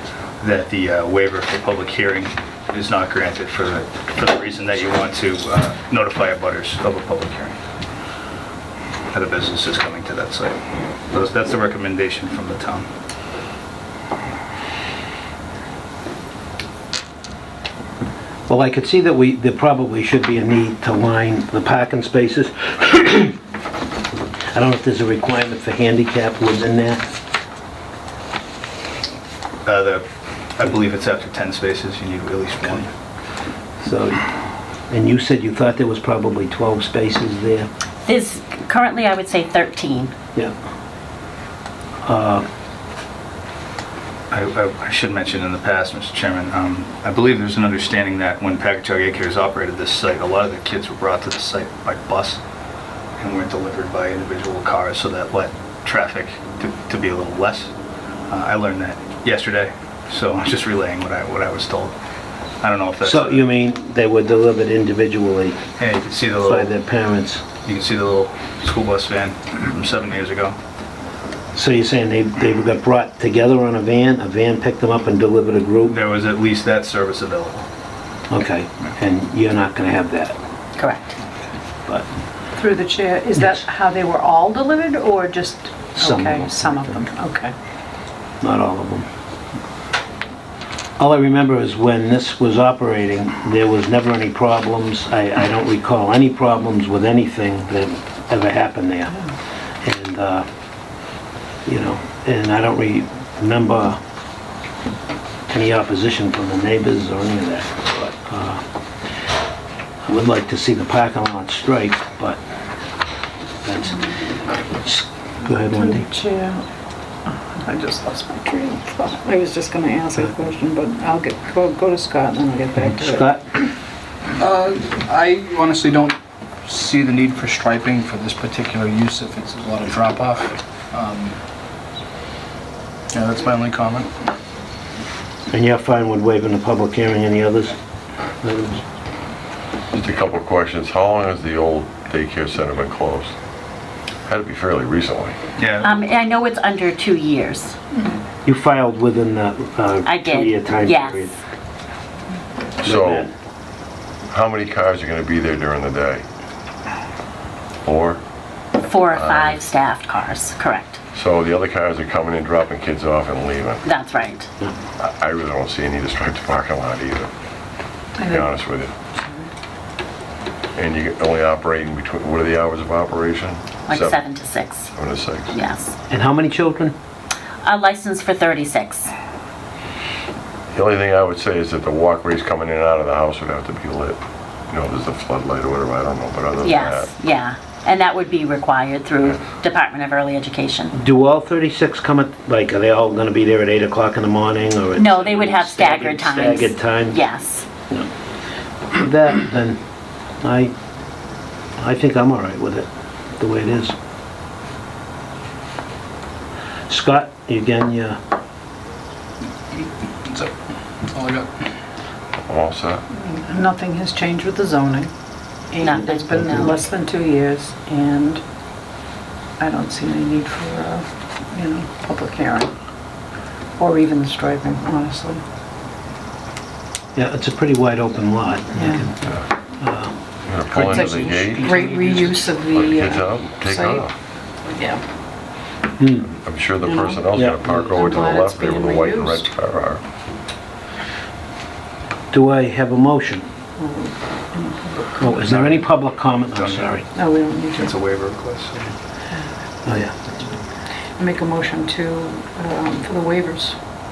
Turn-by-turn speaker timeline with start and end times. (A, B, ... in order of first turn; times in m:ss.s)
0:00.4-0:07.6 A
0:09.1-0:10.6 A
0:11.1-0:12.9 A
0:18.5-0:23.4 B
0:24.5-0:27.0 B
0:29.7-0:30.0 A
0:30.6-0:32.9 A
0:33.8-0:34.3 B
0:34.9-0:37.7 B
0:38.1-0:40.1 C
0:42.0-0:42.4 B
0:44.3-0:52.4 A
0:53.2-0:57.7 A
0:58.3-1:02.0 A
1:02.6-1:03.4 A
1:03.0-1:05.6 B
1:05.8-1:06.7 A
1:06.4-1:07.4 B
1:07.6-1:10.6 A
1:11.6-1:16.0 B
1:15.9-1:17.7 A
1:18.3-1:20.4 B
1:20.8-1:21.1 C
1:22.6-1:27.6 D
1:26.0-1:26.9 B
1:28.4-1:29.1 B
1:31.0-1:39.2 B
1:39.8-1:40.4 B
1:41.7-1:44.0 B
1:45.5-1:48.6 B
1:50.0-1:52.4 B
1:53.6-1:54.0 B
1:54.8-1:56.1 B
1:55.8-1:56.6 D
1:57.3-2:03.2 D
2:02.9-2:03.4 B
2:04.4-2:11.4 E
2:13.1-2:14.0 A
2:13.3-2:14.0 E
2:15.5-2:17.8 B
2:18.4-2:18.8 B
2:19.9-2:23.3 F
2:24.3-2:25.4 F
2:25.6-2:25.9 A
2:25.8-2:27.8 C
2:28.4-2:31.4 B
2:30.0-2:31.3 C
2:32.8-2:33.3 F
2:32.8-2:33.3 B
2:34.3-2:36.2 F
2:37.8-2:38.2 F
2:38.8-2:41.0 C
2:39.1-2:39.6 F
2:41.1-2:43.9 F
2:43.8-2:44.5 C
2:45.0-2:47.3 F
2:48.2-2:48.6 D
2:48.2-2:48.9 F
2:50.8-2:55.6 F
2:53.9-2:54.9 C
2:55.5-2:55.9 C
2:56.1-2:56.9 B
2:57.6-2:59.1 C
3:00.7-3:07.1 F
3:06.6-3:10.9 C
3:09.2-3:09.5 F
3:11.0-3:17.2 B
3:15.0-3:17.7 C
3:18.9-3:19.8 B
3:20.4-3:20.7 B
3:21.8-3:23.9 B
3:26.9-3:28.2 B
3:31.1-3:31.5 E
3:32.4-3:33.0 F
3:33.2-3:35.1 D
3:35.7-3:38.4 D
3:35.8-3:36.8 C
3:36.4-3:36.7 B
3:39.6-3:42.7 D
3:43.8-3:45.4 D
3:47.2-3:49.2 B
3:48.8-3:49.1 D
3:49.8-3:50.2 B
3:50.5-3:54.1 F
3:50.7-3:54.1 D
3:50.7-3:51.0 B
3:54.7-3:55.0 D
3:56.0-3:56.2 B
3:56.2-4:00.0 F
3:56.8-3:59.5 D
3:57.4-3:57.8 B
4:02.3-4:03.5 B
4:03.8-4:05.3 D
4:05.2-4:07.0 B
4:05.3-4:06.0 A
4:06.5-4:07.1 A
4:07.2-4:07.9 D
4:07.7-4:08.9 A
4:09.8-4:10.3 B
4:11.2-4:13.8 D